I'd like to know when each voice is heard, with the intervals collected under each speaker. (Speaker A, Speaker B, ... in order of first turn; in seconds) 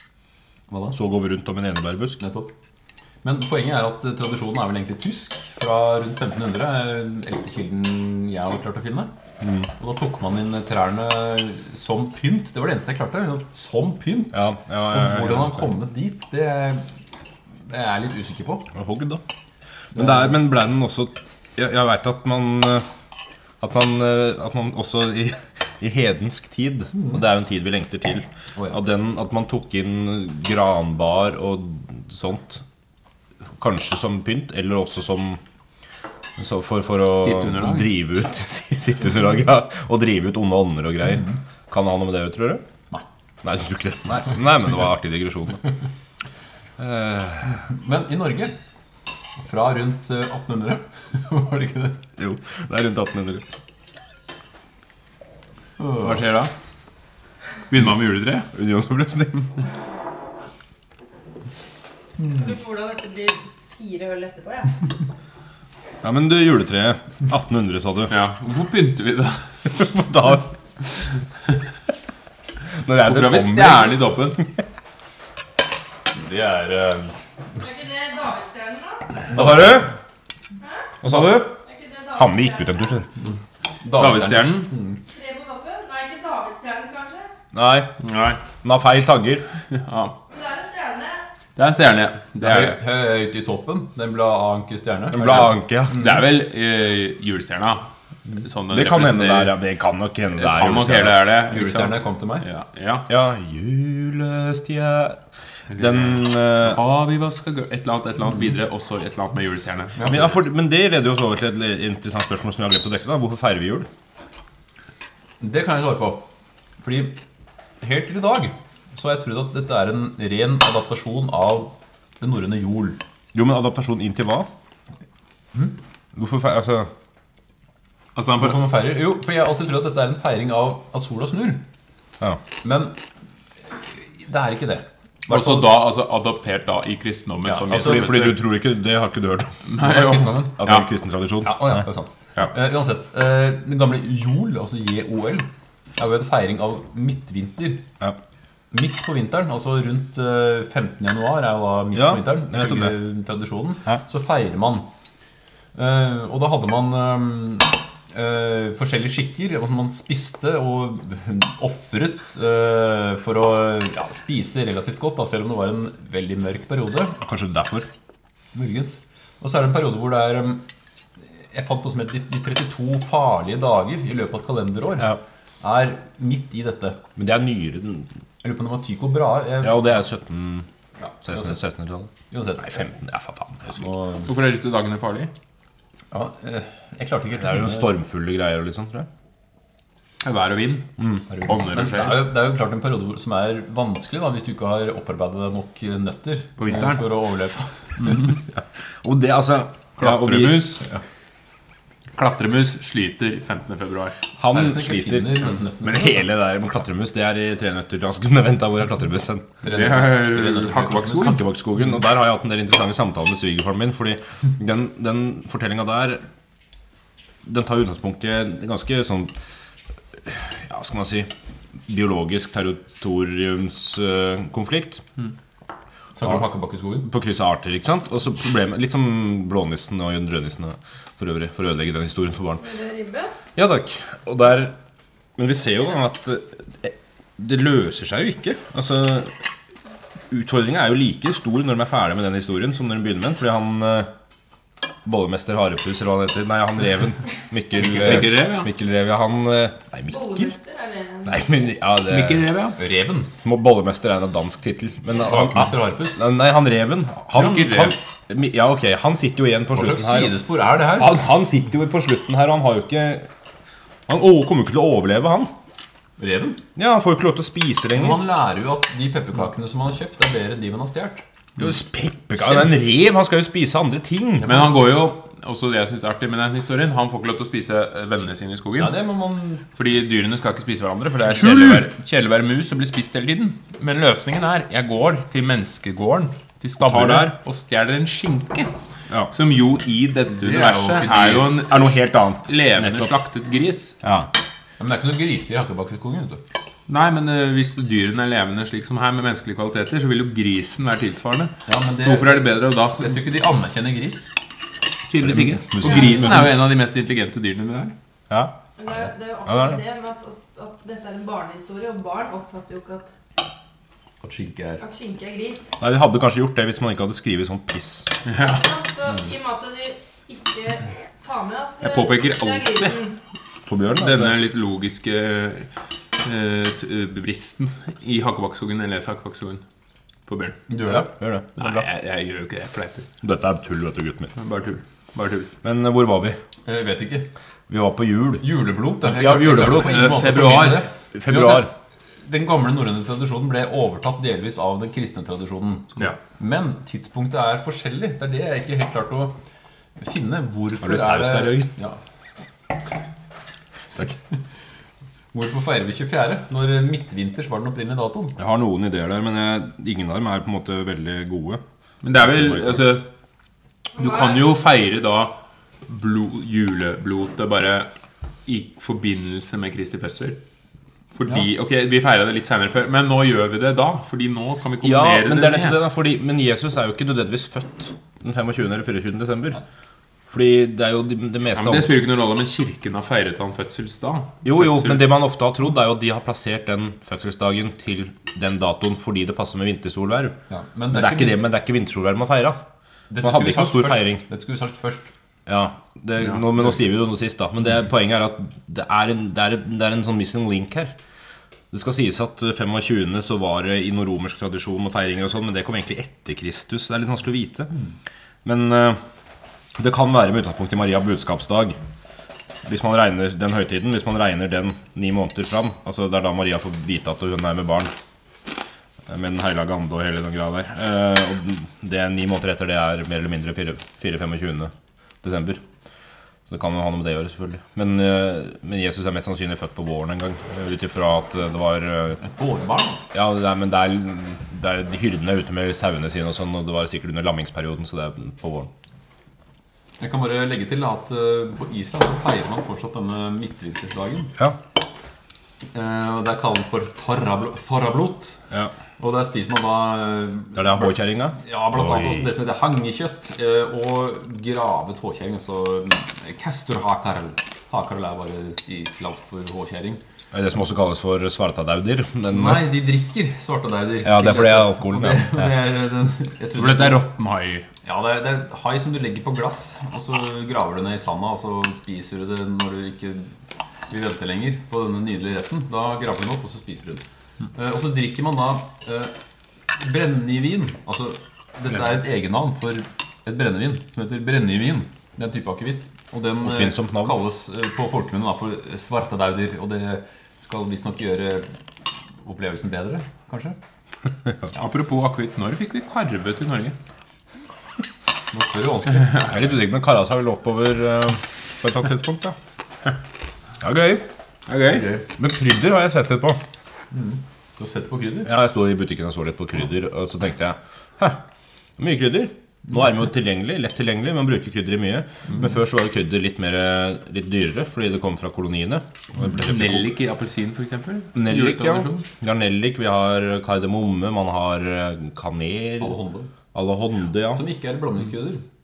Speaker A: 0.7-1.0, 2.2-2.5, 3.2-9.1, 9.8-16.9, 17.7-18.7, 19.9-20.3, 47.7-48.5, 49.4-52.0, 55.8-56.2, 76.1-77.1, 79.3-79.9, 83.8-85.0, 92.4-96.1, 101.5-102.5, 110.0-110.3, 115.4-116.3, 116.8-117.2, 117.8-123.0, 128.4-131.7, 132.6-133.0, 133.7-135.8, 137.5-138.3, 139.7-140.7, 141.4-147.8, 148.7-154.9, 155.8-167.2, 168.5-170.6, 171.4-177.0, 178.4-180.0, 181.0-181.6, 182.3-182.9, 183.8-184.3, 186.1-187.9, 191.3-198.3, 204.4-206.2, 209.6-211.4, 226.2-227.1, 252.8-253.3, 255.2-256.2, 259.7-261.2, 266.2-266.6, 268.0-271.2, 278.8-279.6, 290.4-291.5, 294.8-296.4, 301.7-304.3, 314.2-314.8, 330.7-331.1, 336.6-337.3, 338.4-341.7, 342.2-349.4, 350.0-352.0, 355.3-358.4, 390.5-391.4, 393.1-395.1, 432.2-433.1, 440.0-444.3, 445.7-448.4, 449.0-460.0, 462.3-467.1, 467.8-473.4, 473.9-479.1, 479.7-491.5, 492.2-493.6, 498.3-499.3, 504.7-505.1, 506.9-508.3, 525.8-526.3, 527.3-528.4
Speaker B: 0.9-2.2, 9.4-9.7, 14.3-15.7, 18.7-19.2, 19.9-22.9, 23.6-32.6, 33.6-35.4, 36.4-42.6, 43.4-45.6, 46.8-47.6, 52.2-53.5, 58.5-59.5, 66.0-68.1, 69.8-70.5, 72.8-74.0, 79.3-79.9, 81.0-81.6, 82.1-83.1, 87.5-88.0, 88.6-89.5, 95.1-96.0, 98.7-101.2, 103.1-105.2, 105.8-106.8, 110.1-113.9, 123.3-124.5, 126.2-126.9, 137.7-139.6, 140.6-141.8, 151.9-152.9, 167.2-167.9, 177.2-178.1, 179.6-180.7, 181.2-183.9, 187.4-189.1, 199.0-200.8, 204.4-209.5, 211.2-216.2, 217.4-219.3, 220.2-221.3, 221.9-225.0, 227.1-232.6, 233.6-234.8, 235.4-239.3, 240.3-244.1, 245.1-250.5, 251.2-252.5, 253.4-260.4, 260.9-263.3, 264.1-265.5, 266.8-268.2, 271.6-274.7, 281.3-281.9, 286.8-287.4, 291.6-293.1, 294.0-294.3, 305.2-306.6, 308.3-308.6, 309.5-309.8, 315.8-318.1, 323.7-324.4, 330.8-331.9, 333.2-334.3, 335.6-336.4, 337.7-338.5, 339.0-340.1, 341.1-341.7, 350.8-351.7, 358.4-361.6, 362.2-362.8, 374.8-379.6, 380.3-381.9, 384.4-390.4, 390.9-392.6, 393.2-394.2, 395.5-400.9, 401.7-407.7, 408.4-409.0, 409.8-411.8, 412.6-417.9, 419.1-424.7, 425.2-425.6, 426.5-432.2, 433.1-438.7, 450.6-452.3, 460.3-462.7, 464.0-465.5, 486.4-487.2, 499.2-502.4, 503.6-504.1, 505.1-506.4, 508.3-511.2, 511.8-519.9, 521.1-526.0, 526.5-527.4
Speaker C: 37.2-37.9, 56.0-56.5, 57.7-58.5, 68.1-69.5, 73.0-74.5, 83.9-84.7, 88.0-88.4, 89.7-90.2, 91.6-92.8, 95.9-97.9, 98.4-99.6, 100.4-103.1, 105.7-110.1, 128.2-128.7, 135.3-138.4, 139.7-140.8, 184.2-185.3, 190.2-192.3, 196.6-197.2, 198.0-198.3, 200.0-200.8, 202.2-204.2, 209.7-211.4, 247.8-248.7, 252.1-252.8, 257.3-258.0, 274.4-279.0, 279.7-288.7, 289.3-291.9, 292.5-294.0, 296.9-303.2, 305.1-307.9, 318.3-318.6, 321.8-323.1, 323.9-325.7, 326.2-329.6, 330.3-330.6, 331.6-333.1, 334.4-335.5, 339.6-340.9, 362.0-363.1, 364.0-367.9, 368.5-370.4, 371.1-375.8, 381.6-385.1, 466.6-467.7, 494.5-496.8, 504.5-504.9, 519.4-522.0
Speaker D: 62.3-64.8, 77.6-79.3, 80.6-80.9, 81.6-82.9, 85.1-87.3, 90.3-91.3, 232.6-233.3, 250.1-251.4, 305.9-306.3, 308.8-313.1, 314.8-315.7, 318.5-323.1, 364.0-364.4